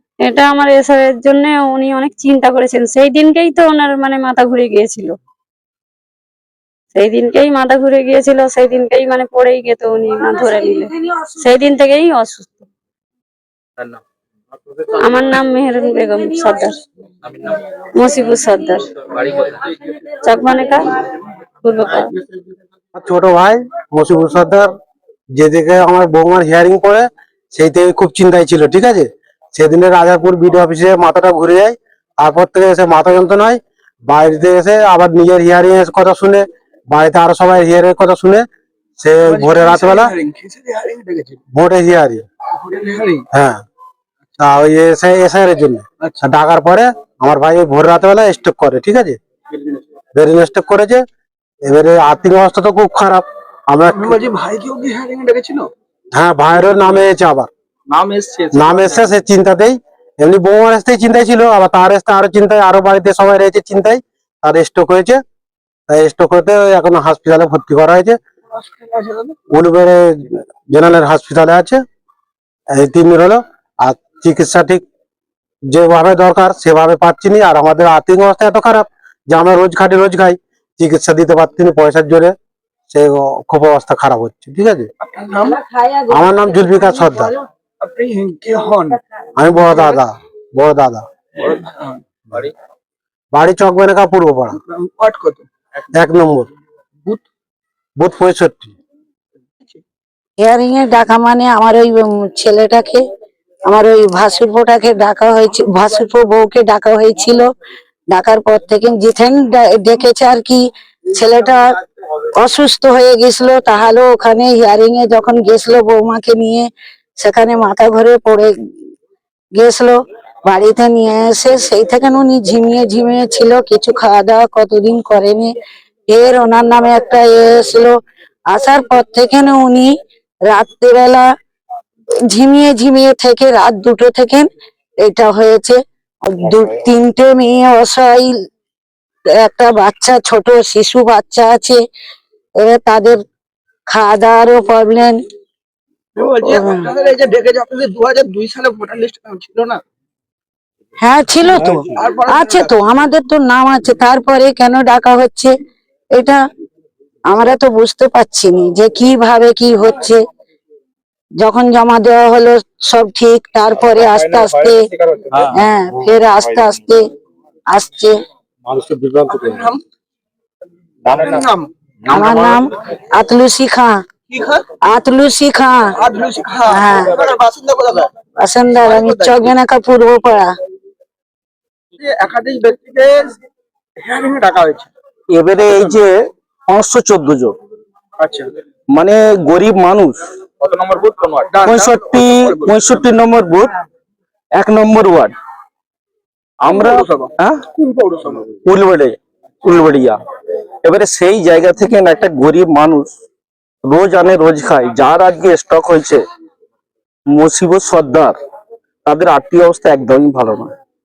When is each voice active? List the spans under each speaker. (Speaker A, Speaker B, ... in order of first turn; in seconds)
Speaker A: 0.3-5.1, 7.0-10.9, 11.4-12.6, 15.0-16.7, 18.0-18.8, 20.3-20.9, 21.6-22.1, 164.0-165.5, 171.1-171.5
Speaker B: 17.2-17.6, 19.1-19.8, 57.9-59.2, 190.6-191.5
Speaker C: 22.9-24.7, 25.4-38.5, 39.0-40.1, 41.5-42.2, 43.3-43.6, 44.4-49.2, 50.1-51.0, 51.6-54.2, 56.1-57.5, 58.5-65.2, 65.9-68.2, 69.5-71.8, 72.7-74.8, 75.7-82.3, 82.9-84.9, 86.1-87.3, 89.4-91.1, 93.3-94.6, 95.9-96.5, 98.0-98.7
Speaker D: 39.2-41.4, 42.6-43.2, 53.9-55.7, 68.5-69.3, 85.0-85.6, 87.8-89.0, 89.5-89.9, 91.4-92.0, 94.5-95.5, 146.2-149.8, 151.9-153.0, 169.2-169.8, 171.1-171.7, 174.3-174.6, 175.9-178.1, 178.7-179.6, 182.0-183.2, 184.0-184.9, 188.2-188.5, 191.5-193.0, 196.7-198.5
Speaker E: 85.7-87.0, 100.4-103.0, 103.7-107.4, 108.1-111.6, 112.4-116.7, 117.2-118.5, 119.6-125.5, 126.1-128.0, 128.5-129.9, 130.5-131.2, 132.3-134.5, 135.1-138.3, 139.4-141.8, 142.6-143.2, 143.9-145.1, 146.4-146.9, 151.0-155.5, 157.3-160.2, 161.4-164.9, 165.5-167.0, 167.7-168.2, 172.1-174.0, 174.9-175.9, 176.7-177.2, 178.4-180.5
Speaker F: 185.3-186.1, 186.7-187.6, 188.9-190.2, 191.6-193.7, 194.6-195.3, 196.7-197.6, 198.7-200.2, 200.8-203.1, 203.9-206.2, 207.3-208.3, 209.1-210.7